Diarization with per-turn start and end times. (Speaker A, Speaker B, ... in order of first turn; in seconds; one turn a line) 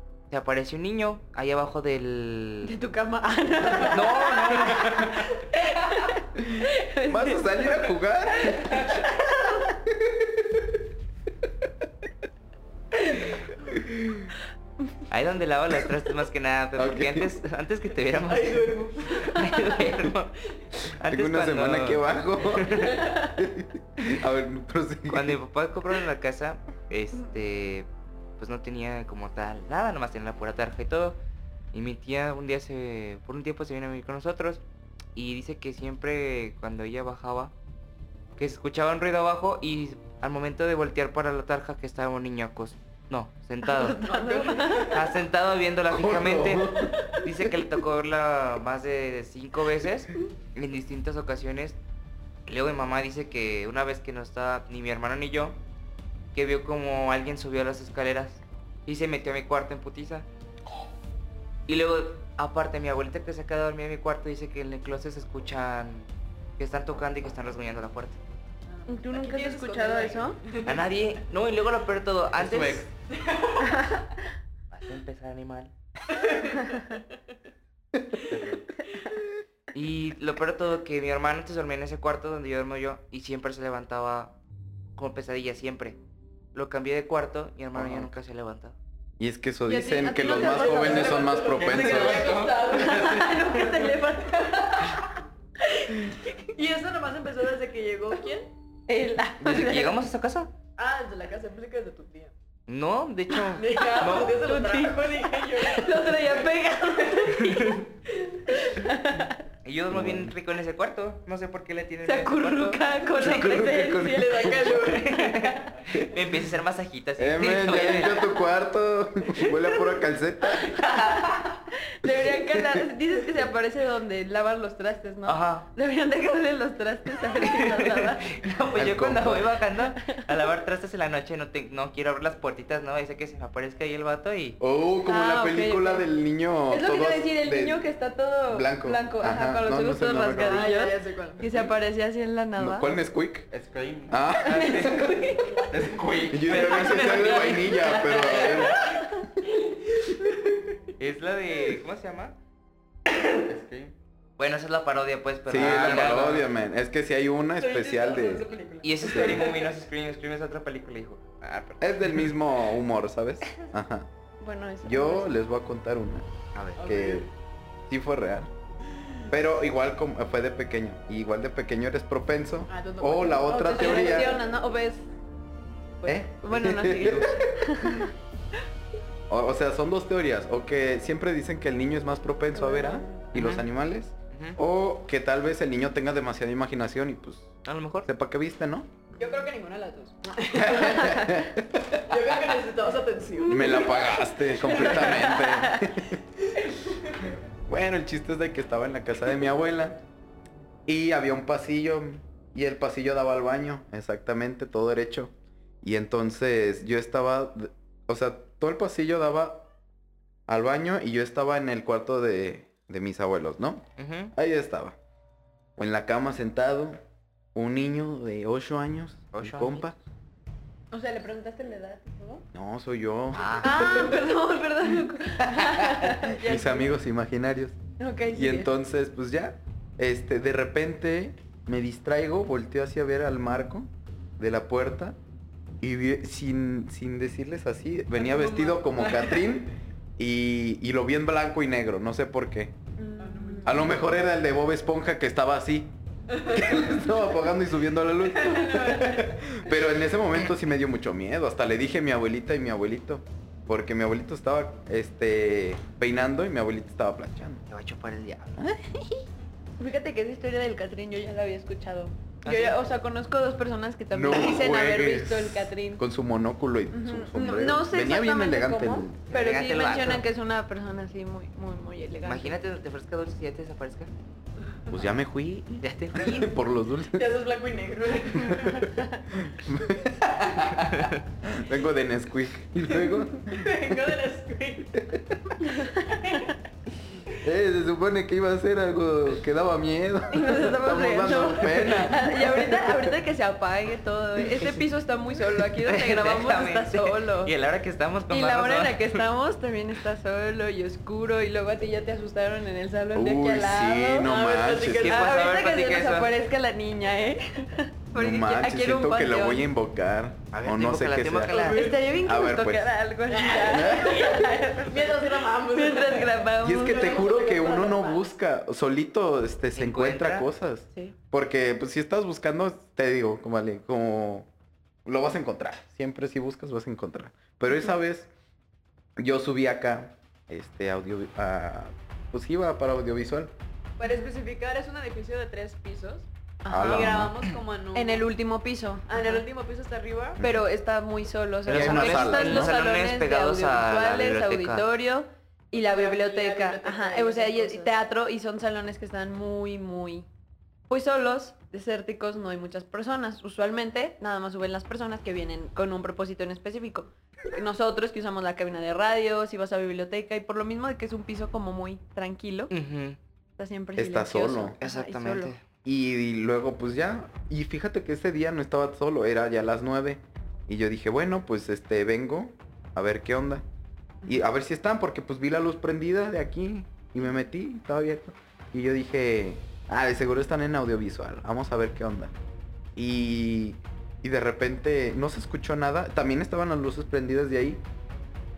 Speaker A: 0.3-2.7
Speaker B: 2.6-7.8
Speaker A: 3.8-5.2
Speaker C: 6.5-10.7
Speaker D: 8.5-9.1
Speaker C: 13.7-14.3
Speaker A: 15.1-20.4
Speaker C: 16.8-17.4
Speaker D: 18.2-20.1
Speaker A: 20.9-23.0
Speaker C: 21.1-25.4
Speaker D: 22.8-23.2
Speaker A: 25.1-27.9
Speaker A: 28.4-31.2
Speaker A: 31.7-34.6
Speaker A: 35.1-37.5
Speaker A: 38.4-44.0
Speaker B: 43.6-45.0
Speaker D: 43.9-45.1
Speaker A: 44.9-51.8
Speaker C: 45.9-47.2
Speaker A: 52.5-55.6
Speaker A: 56.3-60.3
Speaker A: 61.7-68.2
Speaker D: 68.7-70.8
Speaker B: 68.9-70.4
Speaker A: 70.6-72.9
Speaker E: 72.4-72.9
Speaker D: 73.1-74.0
Speaker A: 74.7-75.7
Speaker D: 76.1-77.0
Speaker A: 78.3-78.7
Speaker A: 79.7-84.4
Speaker A: 85.0-86.0
Speaker A: 86.5-88.8
Speaker C: 87.7-88.1
Speaker C: 89.2-92.4
Speaker B: 89.7-91.3
Speaker D: 90.2-95.1
Speaker E: 91.5-93.4
Speaker B: 92.7-95.0
Speaker D: 96.1-98.5
Speaker B: 98.9-100.0
Speaker A: 99.4-100.5
Speaker D: 100.8-102.3
Speaker A: 102.7-104.4
Speaker D: 103.5-108.5
Speaker B: 104.0-107.8
Speaker B: 108.5-109.4
Speaker A: 109.7-112.8
Speaker C: 109.9-110.3
Speaker B: 112.0-114.7
Speaker C: 113.2-115.0
Speaker D: 114.0-115.8
Speaker A: 114.8-118.3
Speaker C: 117.2-120.9
Speaker B: 120.7-128.4
Speaker C: 122.0-122.8
Speaker A: 125.3-125.7
Speaker A: 127.4-134.6
Speaker C: 128.8-129.6
Speaker C: 134.6-137.8
Speaker B: 135.1-136.1
Speaker B: 136.7-143.0
Speaker C: 138.5-140.7
Speaker D: 140.3-141.7
Speaker C: 142.6-143.5
Speaker E: 143.5-144.3
Speaker C: 144.1-145.1
Speaker A: 144.4-145.1
Speaker B: 144.5-145.7
Speaker E: 145.7-147.3
Speaker C: 146.3-148.9
Speaker A: 146.5-148.7
Speaker B: 147.8-149.2
Speaker D: 150.0-150.6
Speaker A: 151.0-152.3
Speaker E: 153.3-153.9
Speaker A: 154.4-156.4
Speaker C: 155.5-158.5
Speaker E: 155.5-156.4
Speaker D: 157.6-159.7
Speaker A: 158.8-161.4
Speaker C: 159.0-159.5
Speaker E: 161.4-161.8
Speaker C: 161.8-164.1
Speaker B: 164.4-165.3
Speaker C: 164.8-166.3
Speaker A: 166.6-166.8
Speaker D: 166.8-167.3
Speaker C: 166.8-167.3
Speaker C: 167.9-168.5
Speaker C: 169.3-174.4
Speaker D: 172.7-174.4
Speaker B: 173.5-175.1
Speaker B: 176.0-178.1
Speaker C: 176.1-178.1
Speaker C: 179.3-188.9
Speaker B: 182.5-183.2
Speaker A: 183.3-183.7
Speaker A: 184.3-184.6
Speaker A: 187.7-188.1
Speaker D: 189.2-191.4
Speaker C: 190.6-192.0
Speaker B: 191.0-191.3
Speaker D: 192.0-195.5
Speaker B: 193.4-195.8
Speaker C: 193.5-196.2
Speaker D: 196.4-197.3
Speaker C: 197.7-200.0
Speaker C: 200.9-209.7
Speaker C: 210.5-215.0
Speaker A: 214.0-214.3
Speaker C: 215.8-217.0
Speaker C: 217.6-220.0
Speaker A: 219.3-219.9
Speaker B: 220.9-222.4
Speaker C: 222.5-224.2
Speaker A: 223.3-223.8
Speaker B: 223.6-226.9
Speaker C: 225.4-227.8
Speaker B: 228.0-228.7
Speaker C: 228.3-235.2
Speaker C: 235.8-242.7
Speaker D: 238.2-239.5
Speaker B: 243.0-243.9
Speaker D: 243.2-244.0
Speaker C: 243.6-257.6
Speaker D: 246.3-247.0
Speaker D: 248.2-249.6
Speaker A: 257.7-258.6
Speaker C: 258.6-259.2
Speaker B: 259.8-266.0
Speaker A: 262.4-262.8
Speaker C: 264.1-269.2
Speaker B: 266.9-272.6
Speaker A: 269.3-270.2
Speaker A: 272.2-274.1
Speaker C: 274.9-277.3
Speaker A: 275.8-276.5
Speaker D: 277.1-278.9
Speaker C: 278.4-283.9
Speaker D: 282.9-285.0
Speaker C: 285.0-285.4
Speaker B: 285.7-286.0
Speaker D: 285.9-286.5
Speaker C: 287.4-293.1
Speaker B: 290.3-297.5
Speaker A: 295.8-299.2
Speaker B: 298.3-304.3
Speaker C: 303.1-305.1
Speaker D: 304.1-305.5
Speaker A: 304.9-306.3
Speaker B: 305.0-309.7
Speaker C: 308.1-312.9
Speaker A: 310.5-311.9
Speaker B: 311.5-317.2
Speaker D: 311.5-312.0
Speaker D: 313.3-318.2
Speaker C: 313.6-314.4
Speaker C: 316.6-324.5
Speaker A: 319.8-320.5
Speaker C: 325.1-328.3
Speaker C: 329.2-333.5
Speaker D: 334.0-336.3
Speaker B: 336.6-337.2
Speaker C: 336.7-337.4
Speaker D: 336.8-338.3
Speaker B: 337.9-339.4
Speaker D: 339.1-340.4
Speaker B: 340.4-350.3
Speaker A: 341.7-344.9
Speaker C: 341.7-342.7
Speaker D: 345.7-347.9
Speaker B: 350.9-362.7
Speaker A: 362.7-363.2
Speaker B: 363.6-365.6
Speaker C: 364.0-364.8
Speaker A: 364.8-365.6
Speaker C: 365.8-373.6
Speaker C: 374.3-382.3
Speaker C: 383.0-387.8